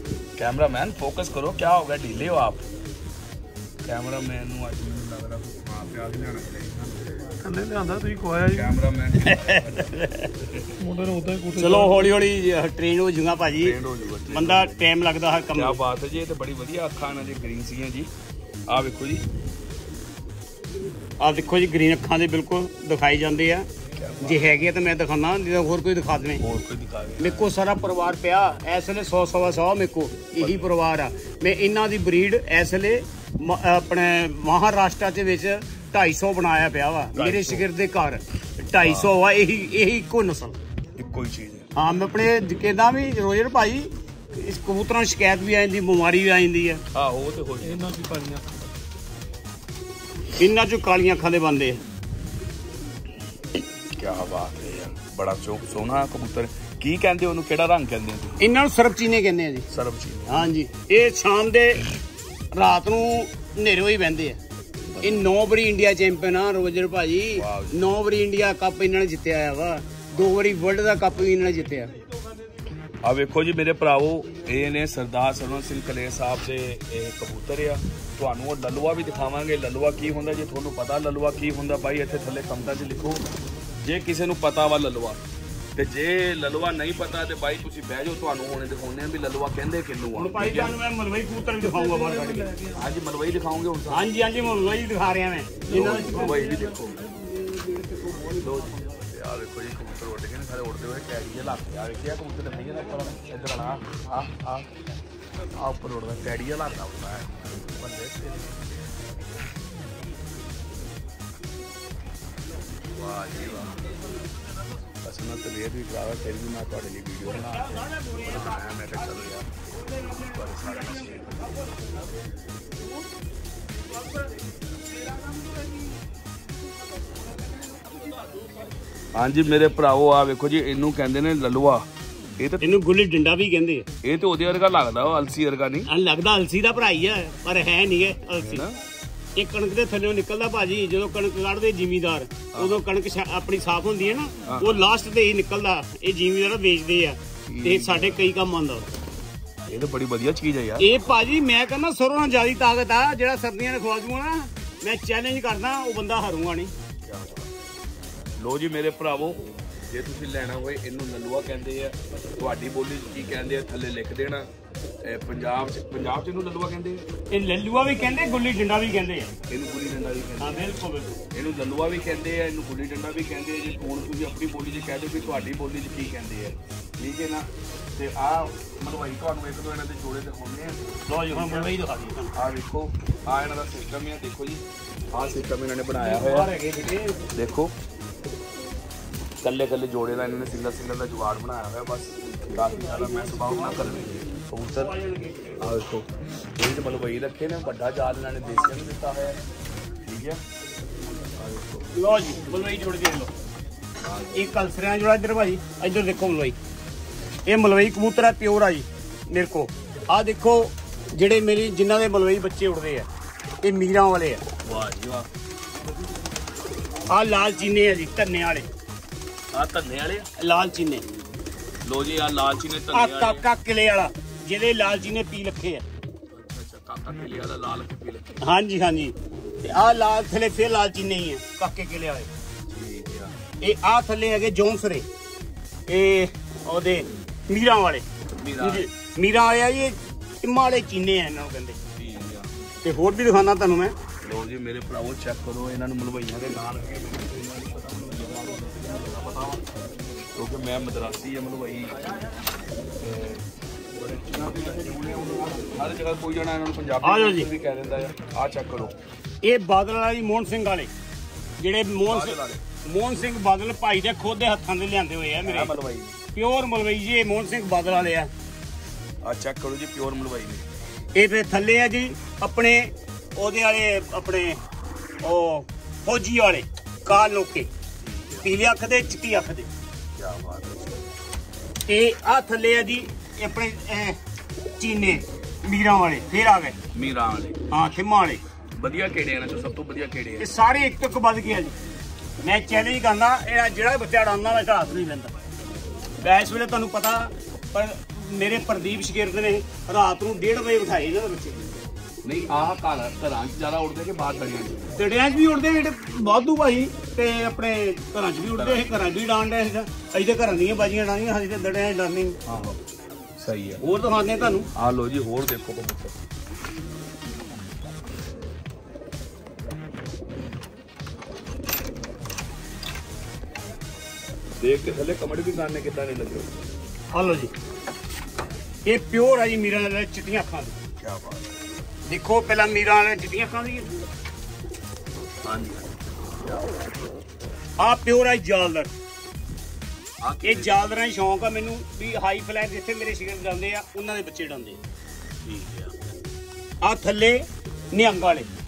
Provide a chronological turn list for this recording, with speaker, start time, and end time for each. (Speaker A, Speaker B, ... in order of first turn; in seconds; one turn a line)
Speaker A: 0.3-2.6
Speaker A: 3.8-7.2
Speaker B: 7.4-8.8
Speaker A: 8.5-10.0
Speaker C: 9.2-10.4
Speaker B: 10.8-12.0
Speaker C: 11.6-13.8
Speaker A: 13.6-14.8
Speaker C: 14.3-15.8
Speaker A: 15.5-18.1
Speaker A: 18.7-19.2
Speaker C: 21.2-23.7
Speaker A: 23.9-24.5
Speaker C: 24.2-26.4
Speaker A: 26.4-27.5
Speaker C: 27.2-40.6
Speaker A: 30.4-30.7
Speaker A: 37.1-37.7
Speaker A: 38.8-39.1
Speaker A: 41.0-41.7
Speaker C: 41.8-46.8
Speaker A: 46.9-48.2
Speaker B: 47.8-48.5
Speaker C: 50.4-51.8
Speaker A: 53.9-58.4
Speaker C: 58.4-59.7
Speaker A: 59.7-60.5
Speaker C: 60.3-61.9
Speaker C: 62.5-64.4
Speaker A: 64.9-65.2
Speaker C: 65.0-71.9
Speaker A: 67.3-67.8
Speaker A: 73.0-83.2
Speaker A: 83.8-85.2
Speaker A: 85.7-90.8
Speaker C: 90.1-92.6
Speaker A: 92.6-94.1
Speaker C: 93.9-96.5
Speaker A: 95.7-97.0
Speaker C: 97.1-98.7
Speaker A: 98.4-104.7
Speaker A: 105.5-108.5
Speaker A: 112.9-113.9
Speaker A: 115.0-121.4
Speaker C: 117.2-122.1
Speaker C: 125.0-125.8
Speaker A: 129.1-132.8
Speaker C: 132.6-133.9
Speaker A: 134.0-135.9
Speaker C: 135.9-138.7
Speaker A: 138.4-138.8
Speaker C: 139.3-148.9
Speaker A: 142.5-142.8
Speaker A: 144.4-144.8
Speaker A: 147.4-148.3
Speaker A: 149.7-151.0
Speaker C: 150.8-156.7
Speaker A: 157.0-157.5
Speaker A: 158.4-164.5
Speaker A: 165.0-167.0
Speaker C: 167.3-169.3
Speaker A: 169.5-170.7
Speaker C: 170.4-171.2
Speaker A: 171.3-181.7
Speaker C: 181.1-182.3
Speaker A: 182.3-186.5
Speaker C: 186.0-187.3
Speaker A: 187.3-187.7
Speaker A: 189.4-194.9
Speaker C: 192.9-193.9
Speaker C: 194.7-195.6
Speaker A: 195.6-199.4
Speaker A: 200.0-200.4
Speaker A: 201.3-201.9
Speaker C: 201.9-203.3
Speaker A: 204.0-204.6
Speaker C: 204.3-206.6
Speaker C: 207.5-213.1
Speaker C: 213.6-214.4
Speaker A: 214.6-215.3
Speaker C: 217.1-218.7
Speaker A: 219.5-220.3
Speaker C: 220.4-221.0
Speaker A: 221.8-223.4
Speaker C: 222.9-225.8
Speaker A: 226.3-228.4
Speaker C: 228.4-232.3
Speaker A: 232.7-233.3
Speaker C: 233.6-235.1
Speaker C: 235.9-238.1
Speaker A: 238.3-238.8
Speaker C: 238.6-241.8
Speaker A: 242.0-242.5
Speaker C: 242.8-243.9
Speaker A: 244.2-249.6
Speaker A: 250.3-252.0
Speaker A: 253.0-258.9
Speaker C: 257.0-257.5
Speaker C: 259.4-260.9
Speaker C: 261.6-265.7
Speaker A: 262.1-262.6
Speaker A: 265.4-266.2
Speaker C: 266.3-268.3
Speaker A: 269.2-270.6
Speaker C: 271.1-274.6
Speaker C: 275.2-277.7
Speaker A: 278.0-278.5
Speaker C: 278.4-279.7
Speaker A: 280.1-281.0
Speaker C: 281.9-284.2
Speaker C: 284.8-286.8
Speaker A: 286.9-287.6
Speaker C: 287.7-288.4
Speaker A: 288.8-290.5
Speaker C: 290.4-291.7
Speaker C: 292.4-295.3
Speaker C: 296.2-301.6
Speaker A: 302.2-305.0
Speaker C: 305.0-312.4
Speaker A: 308.5-309.0
Speaker A: 312.4-312.8
Speaker A: 313.4-313.8
Speaker C: 313.8-314.7
Speaker A: 314.7-316.2
Speaker A: 324.6-326.5
Speaker C: 327.1-327.5
Speaker C: 328.8-330.8
Speaker A: 331.0-331.5
Speaker C: 332.1-333.9
Speaker A: 335.4-336.8
Speaker C: 337.8-338.9
Speaker A: 340.2-340.9
Speaker C: 340.4-344.8
Speaker A: 345.4-346.1
Speaker C: 346.8-348.5